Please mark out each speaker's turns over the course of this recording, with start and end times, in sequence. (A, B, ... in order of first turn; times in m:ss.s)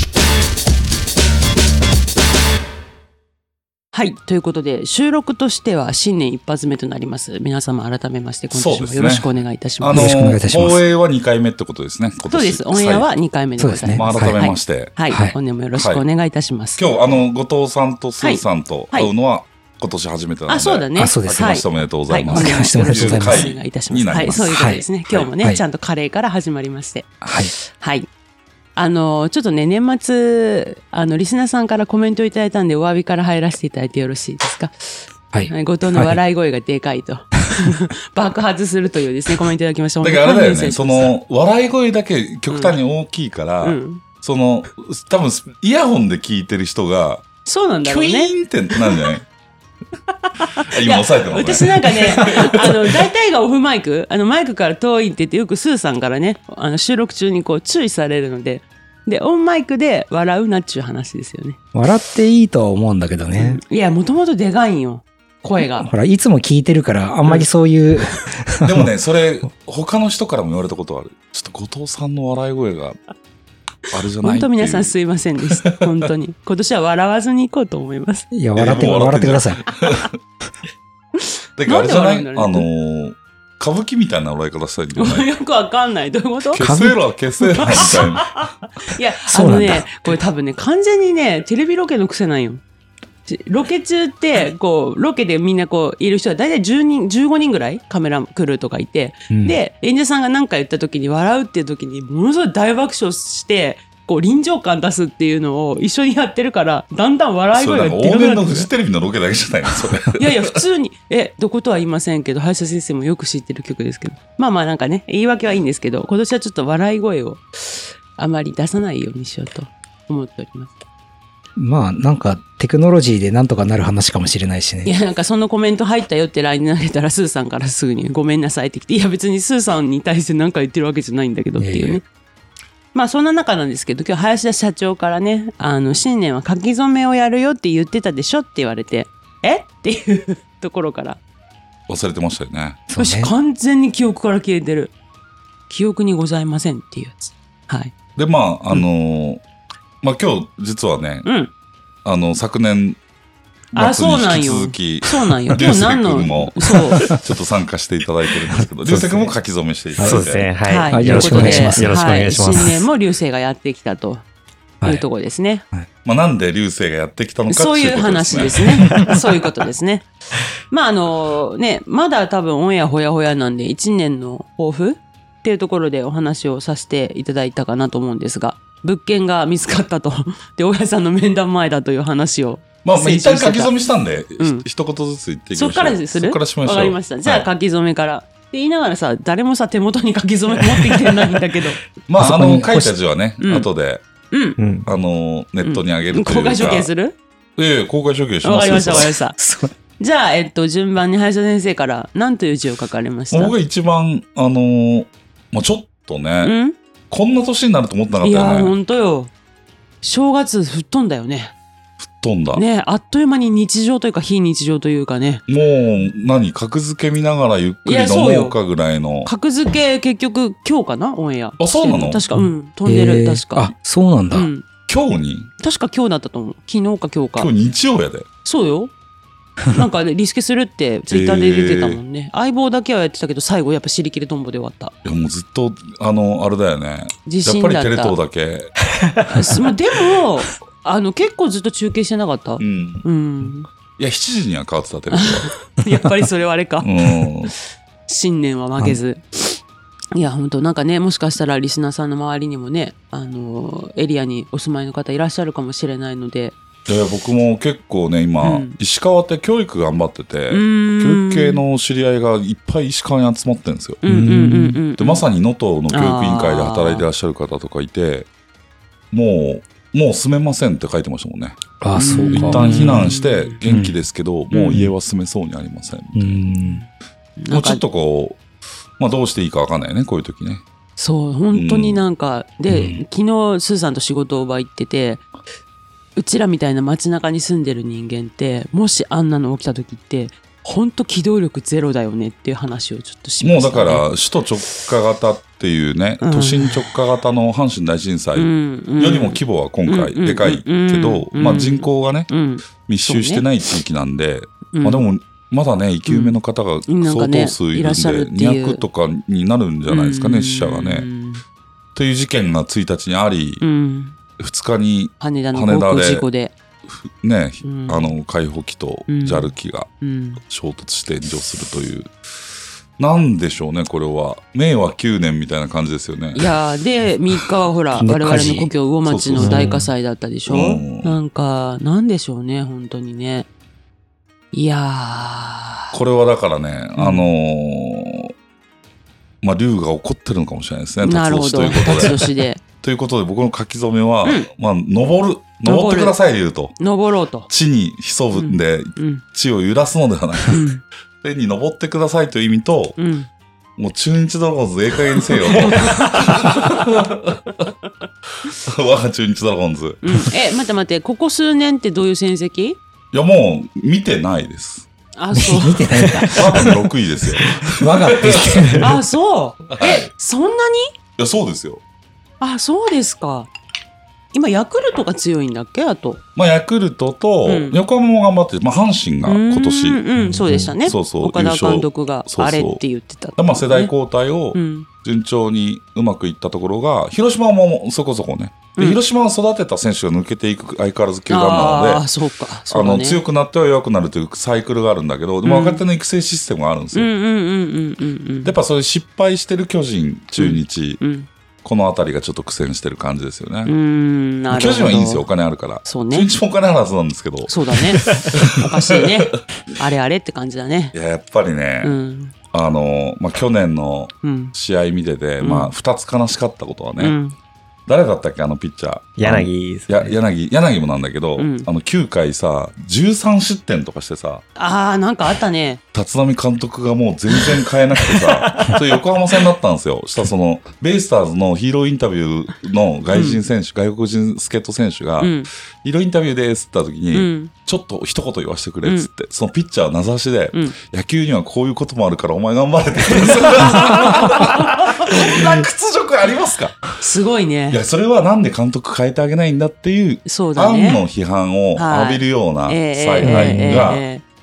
0:03.9-0:10.2 A
0:08.5-0:09.3 B
0:09.8-0:13.1 B
0:09.9-0:10.8 C
0:12.3-0:16.8 A
0:13.6-0:14.5 C
0:13.9-0:15.0 B
0:15.1-0:15.4 C
0:15.7-0:16.0 B
0:16.8-0:25.3 B
0:18.2-0:19.1 A
0:20.5-0:28.1 A
0:21.0-0:21.6 C
0:22.3-0:23.5 C
0:24.4-0:24.9 C
0:27.2-0:27.5 C
0:28.8-0:41.1 A
0:35.3-0:36.2 C
0:40.0-0:47.3 B
0:42.5-0:42.8 A
0:43.6-0:44.0 A
0:47.4-0:49.0 A
0:47.8-0:49.2 B
0:50.4-1:01.6 A
0:50.6-0:52.2 B
1:01.7-1:03.6 C
1:03.4-1:05.9 A
1:05.8-1:08.9 C
1:08.6-1:13.0 B
1:13.9-1:14.9 B
1:14.2-1:18.3 A
1:18.3-1:19.7 C
1:18.6-1:20.2 B
1:21.2-1:22.7 A
1:21.6-1:25.3 B
1:25.0-1:26.7 A
1:26.5-1:28.4 B
1:26.6-1:27.0 C
1:27.6-1:32.6 A
1:27.7-1:28.1 C
1:29.3-1:29.9 C
1:33.3-1:48.7 A
1:39.3-1:39.6 C
1:47.5-1:50.6 B
1:50.2-2:00.7 A
2:01.6-2:04.9 C
2:04.8-2:12.0 A
2:11.6-2:12.0 C
2:12.9-2:21.2 A
2:21.9-2:22.8 B
2:22.9-2:23.3 C
2:23.0-2:24.9 A
2:25.7-2:28.0 A
2:28.2-2:29.4 B
2:30.0-2:31.3 B
2:31.2-2:31.5 A
2:32.0-2:33.0 B
2:33.7-2:40.5 B
2:33.7-2:37.1 A
2:38.9-2:39.3 C
2:40.0-2:40.2 C
2:40.0-2:42.8 D
2:40.6-2:44.2 A
2:40.9-2:42.0 C
2:44.8-2:45.6 A
2:46.0-2:48.7 B
2:47.5-2:50.1 A
2:50.7-3:03.7 A
3:02.8-3:07.5 B
3:04.4-3:04.7 A
3:05.5-3:11.8 A
3:12.1-3:14.0 B
3:12.2-3:12.9 C
3:13.4-3:13.7 A
3:14.3-3:14.6 A
3:14.6-3:14.9 D
3:14.8-3:16.9 B
3:15.6-3:17.2 A
3:17.6-3:19.1 B
3:18.4-3:19.4 A
3:18.6-3:19.7 C
3:20.0-3:23.5 A
3:23.3-3:26.6 B
3:26.4-3:26.8 A
3:27.1-3:28.8 B
3:28.2-3:29.3 A
3:30.0-3:31.5 A
3:32.0-3:32.6 B
3:32.5-3:35.4 A
3:35.5-3:39.3 B
3:37.8-3:38.6 A
3:39.2-3:43.7 A
3:41.6-3:42.2 B
3:42.4-3:44.5 C
3:44.3-3:44.6 A
3:44.9-3:45.5 B
3:45.6-3:47.5 A
3:47.4-3:48.3 B
3:48.4-3:48.9 A
3:49.7-3:54.9 A
3:51.1-3:52.0 B
3:55.0-3:58.8 B
3:57.3-3:58.2 A
3:59.3-4:03.7 A
4:02.6-4:03.1 B
4:04.0-4:05.5 B
4:05.1-4:07.1 A
4:06.8-4:07.5 B
4:08.1-4:09.6 A
4:10.1-4:16.6 A
4:16.9-4:24.0 B
4:18.4-4:18.8 A
4:20.5-4:21.6 A
4:24.0-4:25.2 A
4:24.1-4:24.8 C
4:25.0-4:28.3 B
4:25.9-4:27.0 A
4:29.1-4:36.4 B
4:31.8-4:33.1 C
4:32.0-4:33.6 A
4:33.7-4:34.0 C
4:34.5-4:34.9 A
4:36.2-4:36.8 C
4:36.6-4:37.8 A
4:37.5-4:38.4 B
4:39.0-4:40.6 B
4:41.0-4:45.3 A
4:41.5-4:42.0 B
4:42.7-4:43.0 C
4:46.2-4:54.1 A
4:53.4-5:11.1 B
4:56.2-4:56.9 A
4:58.4-5:03.5 A
5:04.7-5:05.1 A
5:06.1-5:08.8 A
5:09.9-5:11.4 A
5:12.0-5:13.6 B
5:13.6-5:14.2 A
5:14.4-5:16.3 B
5:15.2-5:16.5 A
5:16.9-5:19.9 B
5:17.6-5:18.1 A
5:19.1-5:20.4 A
5:20.5-5:22.1 B
5:23.0-5:26.5 B
5:26.4-5:33.5 A
5:27.9-5:28.7 C
5:29.0-5:29.7 B
5:29.4-5:29.9 D
5:30.5-5:31.2 B
5:34.5-5:36.0 A
5:35.9-5:38.3 B
5:37.0-5:37.3 A
5:39.4-5:46.8 B
5:41.0-5:42.6 A
5:44.2-5:44.5 A
5:45.6-5:46.2 A
5:46.8-5:47.5 A
5:47.5-5:50.6 B
5:48.4-5:49.2 A
5:50.5-5:50.8 A
5:51.2-5:53.0 B
5:53.0-5:53.3 A
5:53.8-5:57.4 B
5:55.5-5:56.8 A
5:58.6-6:00.0 B
6:00.0-6:02.8 A
6:03.1-6:04.9 B
6:05.2-6:05.9 A
6:05.4-6:08.9 C
6:06.3-6:08.8 B
6:08.8-6:11.0 A
6:09.8-6:10.1 B
6:11.2-6:11.8 B
6:12.4-6:13.5 A
6:14.3-6:16.2 A
6:16.4-6:20.0 B
6:17.5-6:17.8 A
6:19.3-6:23.9 A
6:20.2-6:20.7 D
6:20.8-6:22.8 B
6:23.4-6:32.0 B
6:24.5-6:24.9 A
6:31.3-6:33.2 A
6:32.7-6:37.1 B
6:35.4-6:35.8 A
6:36.9-6:38.5 A
6:38.4-6:41.0 B
6:40.4-6:41.3 A
6:41.6-6:43.7 B
6:43.6-6:45.3 A
6:44.5-6:48.7 B
6:45.8-6:46.3 A
6:47.5-6:51.0 A
6:50.9-6:52.0 B
6:51.8-6:52.3 A
6:52.5-6:57.2 B
6:54.2-6:54.6 A
6:55.4-6:55.7 A
6:57.0-6:57.4 A
6:57.9-7:04.4 B
6:59.2-7:00.2 D
7:01.4-7:01.7 A
7:04.6-7:05.8 A
7:05.9-7:26.9 B
7:13.1-7:13.4 A
7:15.2-7:15.5 A
7:17.1-7:17.5 A
7:18.8-7:19.1 A
7:23.2-7:25.6 A
7:27.0-7:27.8 A
7:27.7-7:34.0 B
7:30.3-7:31.0 A
7:31.8-7:34.2 A
7:33.2-7:33.8 D